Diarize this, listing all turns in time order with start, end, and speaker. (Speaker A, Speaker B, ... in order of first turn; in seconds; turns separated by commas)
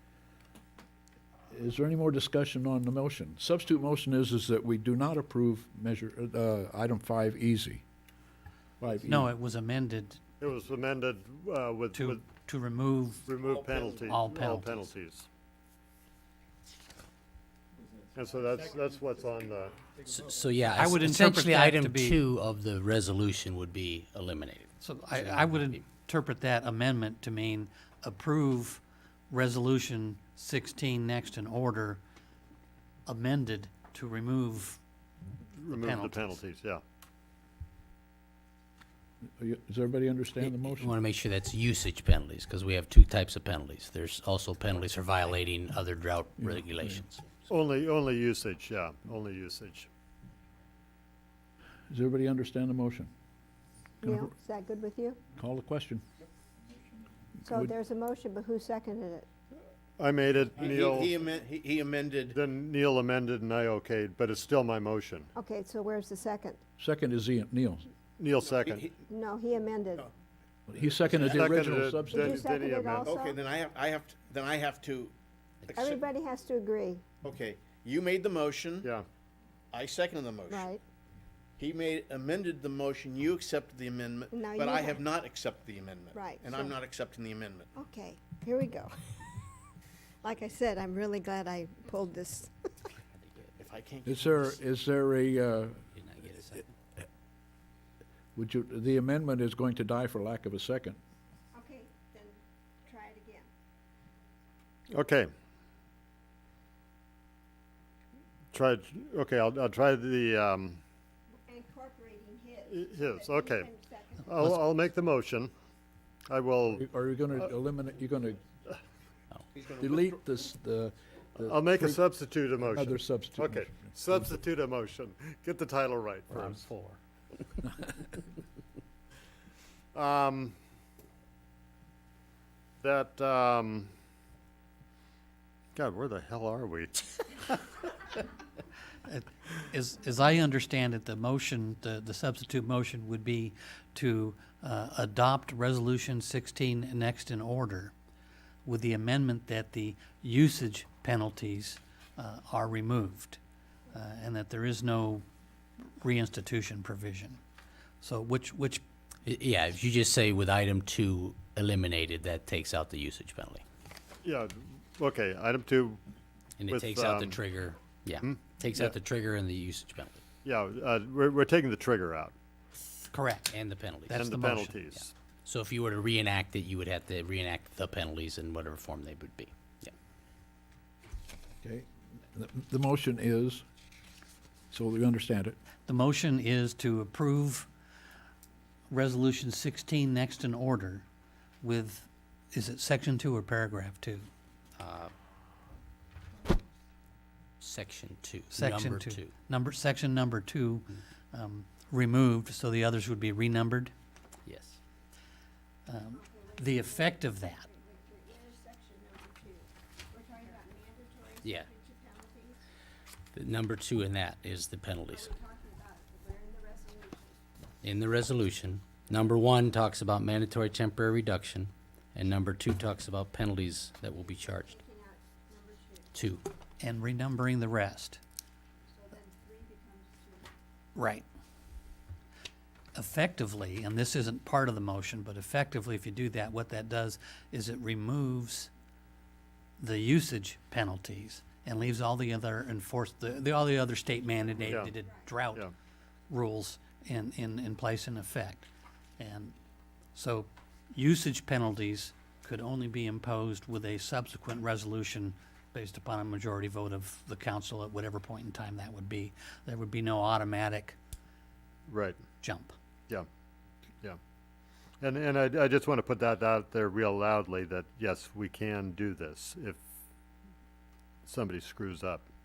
Speaker A: 1.5-7.8, Speaker A: 8.8-9.3, Speaker B: 9.0-10.2, Speaker C: 10.4-12.2, Speaker B: 11.9-13.3, Speaker C: 13.3-15.3, Speaker D: 13.5-14.1, Speaker B: 14.1-14.9, Speaker C: 18.1-19.8, Speaker E: 20.1-25.8, Speaker B: 20.8-22.2, Speaker B: 24.8-32.0, Speaker B: 33.1-34.8, Speaker C: 35.6-36.8, Speaker B: 35.7-36.4, Speaker A: 39.4-41.0, Speaker E: 40.4-47.2, Speaker A: 46.4-47.0, Speaker C: 47.5-49.9, Speaker A: 51.9-53.1, Speaker F: 54.0-55.2, Speaker A: 55.4-56.0, Speaker F: 57.5-59.3, Speaker A: 57.5-57.7, Speaker C: 60.0-61.2, Speaker D: 60.5-62.4, Speaker C: 62.3-65.3, Speaker F: 65.3-66.6, Speaker A: 66.8-67.9, Speaker C: 68.2-68.9, Speaker D: 68.4-69.0, Speaker F: 69.1-70.1, Speaker A: 70.7-72.4, Speaker D: 71.1-71.5, Speaker C: 71.2-73.2, Speaker F: 72.1-73.4, Speaker D: 73.0-75.1, Speaker D: 75.7-76.0, Speaker F: 75.7-77.0, Speaker D: 77.2-78.9, Speaker D: 79.7-80.7, Speaker F: 80.5-80.8, Speaker D: 81.6-87.7, Speaker F: 84.3-85.1, Speaker F: 86.1-86.8, Speaker F: 87.8-89.6, Speaker F: 90.2-92.9, Speaker E: 93.2-93.5, Speaker D: 93.6-94.6, Speaker A: 94.0-95.8, Speaker E: 95.9-96.7, Speaker A: 98.3-101.0, Speaker F: 101.5-103.5, Speaker C: 104.9-105.3, Speaker C: 108.5-110.8, Speaker F: 111.5-114.4, Speaker C: 112.7-113.7, Speaker C: 114.2-115.5, Speaker C: 116.3-116.8, Speaker A: 116.8-118.4, Speaker D: 119.6-120.1, Speaker A: 119.8-122.0, Speaker C: 121.4-126.7, Speaker A: 122.7-124.3, Speaker E: 126.3-127.0, Speaker C: 129.9-130.6, Speaker C: 132.8-133.9, Speaker C: 135.8-137.4, Speaker B: 139.1-147.9, Speaker B: 148.7-153.4, Speaker B: 153.9-155.2, Speaker B: 156.0-157.4, Speaker B: 158.0-158.8, Speaker E: 159.3-163.6, Speaker C: 164.2-166.0, Speaker E: 166.6-170.2, Speaker C: 166.7-167.4, Speaker C: 168.2-168.9, Speaker C: 170.4-172.3, Speaker B: 173.1-173.5, Speaker E: 173.5-174.3, Speaker B: 174.1-174.8, Speaker C: 174.1-175.1, Speaker E: 175.0-179.9, Speaker A: 181.6-183.6, Speaker A: 184.7-185.6, Speaker B: 185.9-187.7, Speaker B: 188.9-191.1, Speaker B: 191.6-194.3, Speaker E: 194.8-195.1, Speaker E: 197.6-199.3, Speaker B: 198.5-203.9, Speaker E: 204.4-204.8, Speaker B: 205.9-207.7, Speaker F: 206.1-212.6, Speaker E: 211.4-211.7, Speaker E: 213.3-215.3, Speaker F: 215.1-217.4, Speaker E: 217.8-224.8, Speaker F: 224.3-226.1, Speaker E: 226.1-226.4, Speaker B: 226.8-228.2, Speaker F: 228.9-230.5, Speaker B: 230.9-231.2, Speaker B: 232.9-238.7, Speaker B: 239.8-245.7, Speaker C: 244.7-244.9, Speaker B: 246.3-249.6, Speaker B: 250.2-261.0, Speaker C: 261.9-262.2, Speaker B: 262.4-262.7, Speaker C: 265.0-269.8, Speaker C: 271.3-272.2